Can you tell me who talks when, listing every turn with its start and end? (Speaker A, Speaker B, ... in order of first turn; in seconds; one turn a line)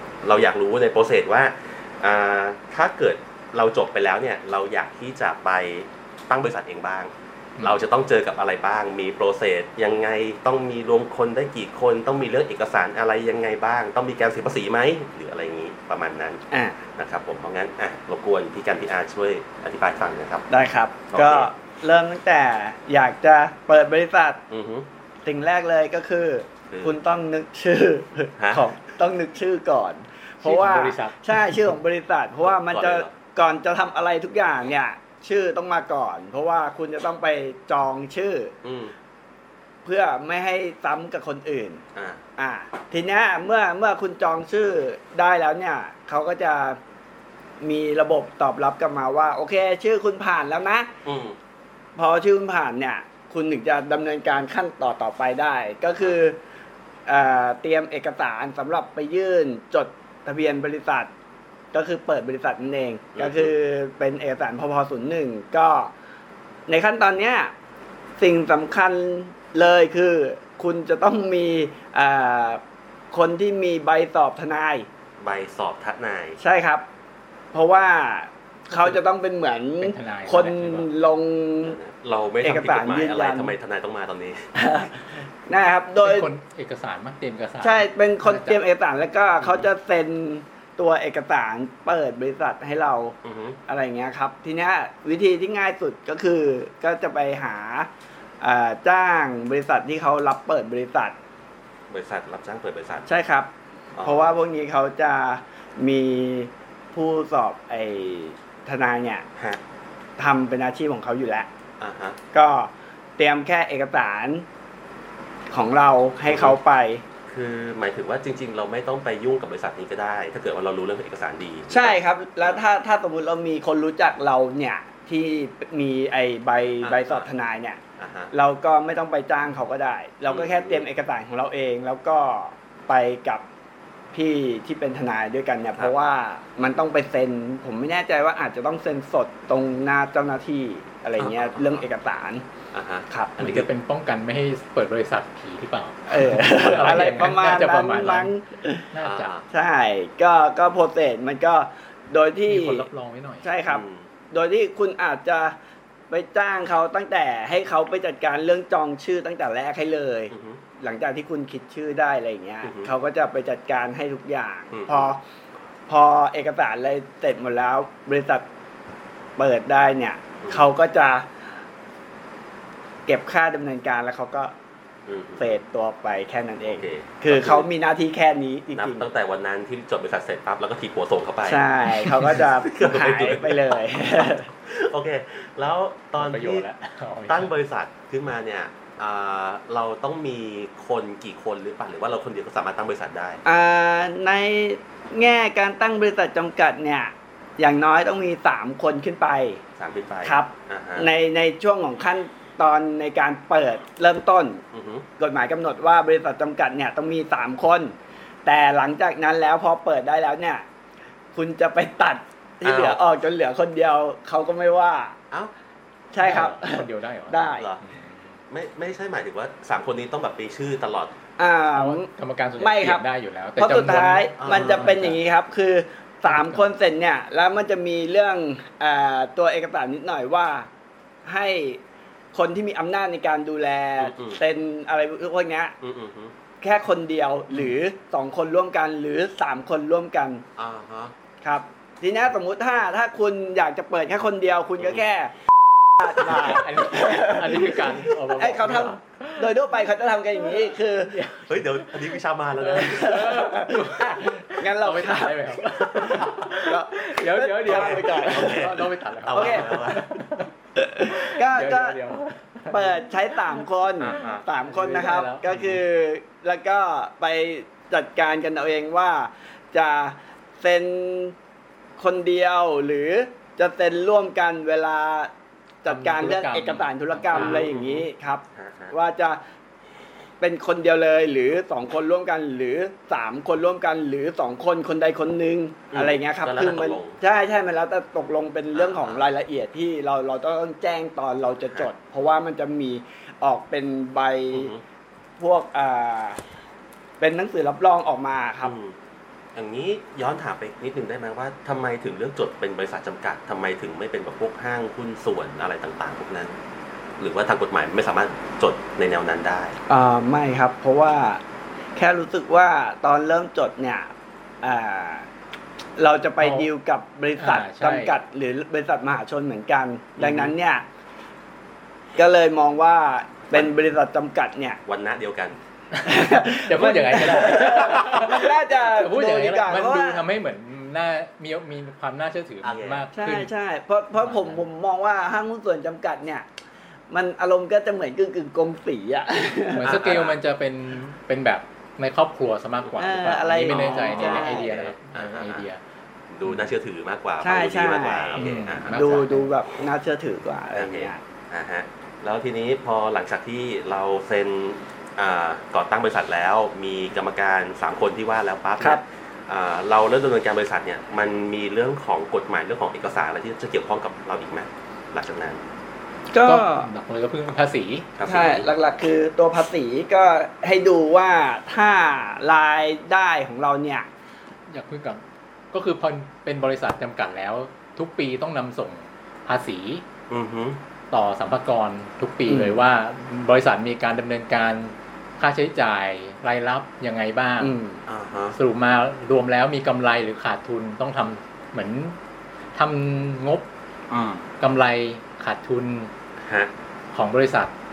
Speaker A: 0.2-16.4
Speaker B: 7.6-7.8
Speaker C: 16.5-16.9
Speaker A: 17.0-20.5
Speaker C: 20.5-24.4
Speaker A: 21.1-21.5
Speaker A: 24.5-24.9
Speaker C: 25.2-38.5
Speaker A: 26.7-26.9
Speaker A: 28.4-28.6
Speaker B: 30.4-31.8
Speaker A: 32.4-33.1
Speaker A: 38.6-39.0
Speaker C: 39.9-41.8
Speaker A: 42.0-42.2
Speaker C: 42.4-46.8
Speaker C: 47.6-50.9
Speaker A: 51.0-51.4
Speaker C: 52.0-56.4
Speaker C: 57.1-61.1
Speaker C: 61.7-65.9
Speaker A: 63.1-63.5
Speaker C: 66.7-67.5
Speaker C: 68.2-74.9
Speaker A: 75.2-76.4
Speaker C: 76.4-76.8
Speaker C: 77.5-81.8
Speaker B: 78.7-79.0
Speaker B: 79.8-80.9
Speaker A: 81.6-84.5
Speaker C: 82.4-83.5
Speaker C: 84.5-86.3
Speaker B: 86.0-88.6
Speaker C: 87.6-97.9
Speaker A: 93.2-93.6
Speaker C: 98.4-101.2
Speaker A: 101.9-103.1
Speaker C: 103.1-103.5
Speaker A: 104.0-104.3
Speaker C: 104.0-109.3
Speaker A: 109.4-109.6
Speaker C: 110.2-111.5
Speaker A: 111.8-112.2
Speaker C: 112.3-114.5
Speaker C: 115.5-117.0
Speaker A: 116.2-116.6
Speaker A: 117.3-122.6
Speaker C: 121.7-127.8
Speaker A: 126.8-127.3
Speaker A: 128.0-128.3
Speaker C: 128.3-133.4
Speaker A: 130.3-130.9
Speaker C: 134.1-142.4
Speaker A: 141.2-141.9
Speaker A: 142.7-143.7
Speaker C: 143.1-143.4
Speaker B: 143.4-148.3
Speaker C: 146.1-148.9
Speaker B: 148.9-149.3
Speaker A: 149.0-149.5
Speaker C: 149.5-152.9
Speaker B: 152.5-153.5
Speaker C: 153.4-155.6
Speaker A: 153.7-154.1
Speaker C: 156.1-165.2
Speaker A: 160.3-160.6
Speaker A: 162.6-162.9
Speaker A: 164.7-165.1
Speaker C: 165.9-168.4
Speaker C: 169.4-171.3
Speaker A: 170.4-170.7
Speaker C: 173.1-174.5
Speaker A: 175.1-175.6
Speaker C: 175.4-179.1
Speaker A: 176.7-177.7
Speaker A: 178.7-181.6
Speaker C: 181.5-184.5
Speaker A: 182.2-186.7
Speaker B: 186.2-187.5
Speaker A: 187.3-193.4
Speaker C: 193.4-199.6
Speaker A: 199.8-201.1
Speaker C: 200.2-204.6
Speaker A: 204.7-205.1
Speaker C: 205.2-210.7
Speaker C: 211.3-215.2
Speaker A: 212.6-213.0
Speaker C: 216.1-217.7
Speaker B: 216.2-218.4
Speaker A: 218.5-221.2
Speaker C: 221.4-222.1
Speaker B: 221.8-225.2
Speaker C: 222.6-223.0
Speaker C: 223.6-230.7
Speaker A: 224.4-225.1
Speaker B: 226.3-226.7
Speaker C: 231.3-231.8
Speaker C: 232.3-235.8
Speaker A: 234.0-234.4
Speaker A: 235.8-236.3
Speaker C: 236.6-240.4
Speaker A: 240.6-241.1
Speaker C: 241.4-245.4
Speaker C: 246.0-251.2
Speaker B: 246.3-249.5
Speaker A: 248.6-248.9
Speaker B: 251.1-251.9
Speaker A: 251.4-253.3
Speaker B: 252.6-265.5
Speaker C: 252.8-258.7
Speaker A: 257.7-260.1
Speaker C: 259.3-259.7
Speaker C: 260.8-262.0
Speaker C: 262.7-271.4
Speaker A: 264.0-264.5
Speaker A: 265.5-265.8
Speaker C: 272.0-275.3
Speaker C: 275.8-279.4
Speaker B: 275.9-277.7
Speaker A: 277.3-278.9
Speaker C: 280.4-294.7
Speaker A: 285.9-287.2
Speaker A: 288.7-289.3
Speaker A: 294.5-294.8
Speaker C: 295.4-296.4
Speaker C: 297.2-298.8
Speaker A: 298.6-299.0
Speaker A: 299.6-306.6
Speaker A: 307.2-309.8
Speaker C: 309.9-311.4
Speaker C: 312.0-314.1
Speaker C: 314.6-315.3
Speaker C: 316.0-320.9
Speaker B: 316.4-316.7
Speaker B: 317.4-318.2
Speaker A: 320.2-320.6
Speaker C: 322.2-324.8
Speaker A: 324.9-325.6
Speaker B: 325.9-333.5
Speaker C: 326.1-330.2
Speaker A: 332.6-333.1
Speaker C: 333.1-336.5
Speaker B: 334.2-334.6
Speaker C: 337.1-340.0
Speaker B: 339.8-345.8
Speaker A: 339.8-340.4
Speaker C: 343.0-344.7
Speaker A: 343.7-345.7
Speaker A: 346.3-349.0
Speaker B: 346.4-346.7
Speaker C: 347.4-351.2
Speaker B: 348.4-349.5
Speaker A: 350.7-365.6
Speaker C: 366.3-366.9
Speaker B: 366.4-368.1
Speaker A: 368.2-368.7
Speaker C: 368.2-374.1
Speaker B: 374.7-380.0
Speaker A: 380.3-380.8
Speaker B: 381.1-387.8
Speaker C: 382.5-382.8
Speaker C: 387.6-388.0
Speaker A: 388.1-388.6
Speaker B: 388.6-392.2
Speaker B: 392.8-393.7
Speaker A: 394.1-394.5
Speaker B: 394.6-396.1
Speaker A: 396.4-396.7
Speaker B: 397.1-397.7